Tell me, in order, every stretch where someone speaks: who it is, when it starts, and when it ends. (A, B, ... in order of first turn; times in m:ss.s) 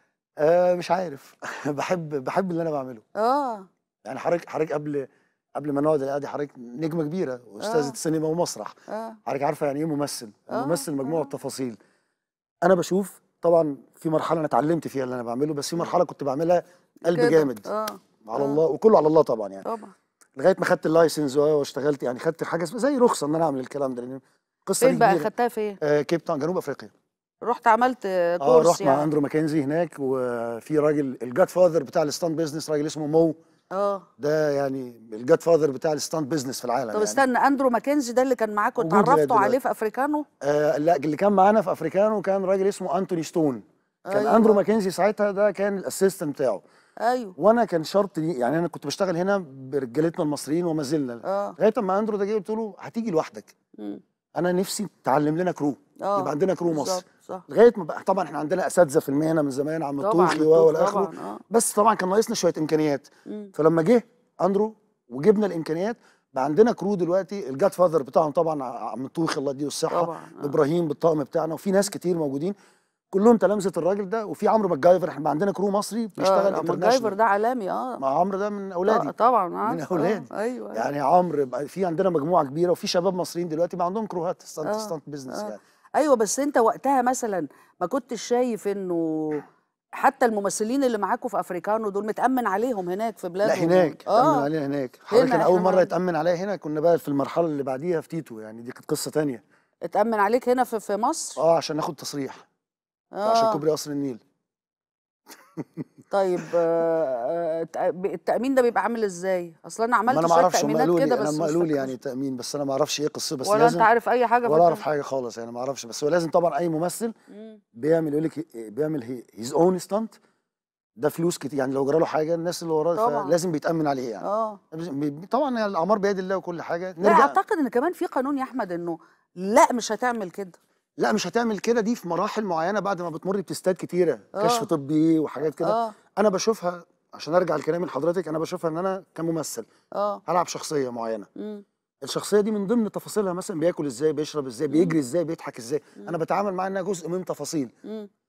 0:00.4-0:03.0 A
0:03.2-0:03.7 B
0:04.0-0:08.7 A
0:07.6-0:08.0 B
0:08.9-0:09.2 B
0:09.3-0:11.8 A
0:10.5-0:11.3 B
0:12.6-0:17.7 A
0:17.1-0:18.6 B
0:18.2-0:19.7 A
0:19.6-0:19.9 B
0:20.4-0:25.3 A
0:24.8-0:25.8 B
0:25.8-0:26.9 A
0:27.4-0:29.1 B
0:28.4-0:33.4 A
0:33.7-0:34.1 B
0:34.2-0:37.2 A
0:36.9-0:40.2 B
0:38.8-0:39.6 A
0:40.4-0:46.6 A
0:44.1-0:44.6 B
0:47.0-0:47.4 B
0:47.4-0:53.5 A
0:51.2-0:51.6 B
0:54.4-1:12.6 A
0:56.0-0:57.4 B
1:00.0-1:01.4 B
1:09.9-1:10.6 B
1:13.1-1:17.2 A
1:16.2-1:18.0 B
1:18.0-1:19.1 A
1:18.9-1:20.9 B
1:19.6-1:25.6 A
1:24.6-1:29.4 B
1:30.0-1:34.5 B
1:33.4-1:39.4 A
1:35.1-1:35.9 B
1:39.9-1:41.4 B
1:41.4-1:42.4 A
1:43.2-1:43.6 B
1:43.2-1:44.2 A
1:46.1-1:51.9 B
1:50.1-1:53.9 A
1:53.4-1:54.8 B
1:54.5-1:57.1 A
1:57.3-1:57.6 B
1:57.8-2:00.2 A
2:01.0-2:07.4 A
2:03.0-2:03.4 B
2:04.2-2:04.6 B
2:07.0-2:10.6 B
2:11.0-2:19.7 A
2:14.4-2:14.7 B
2:15.4-2:16.0 B
2:20.0-2:20.2 B
2:20.3-2:21.3 A
2:21.4-2:21.6 B
2:22.0-2:27.7 A
2:24.7-2:25.0 B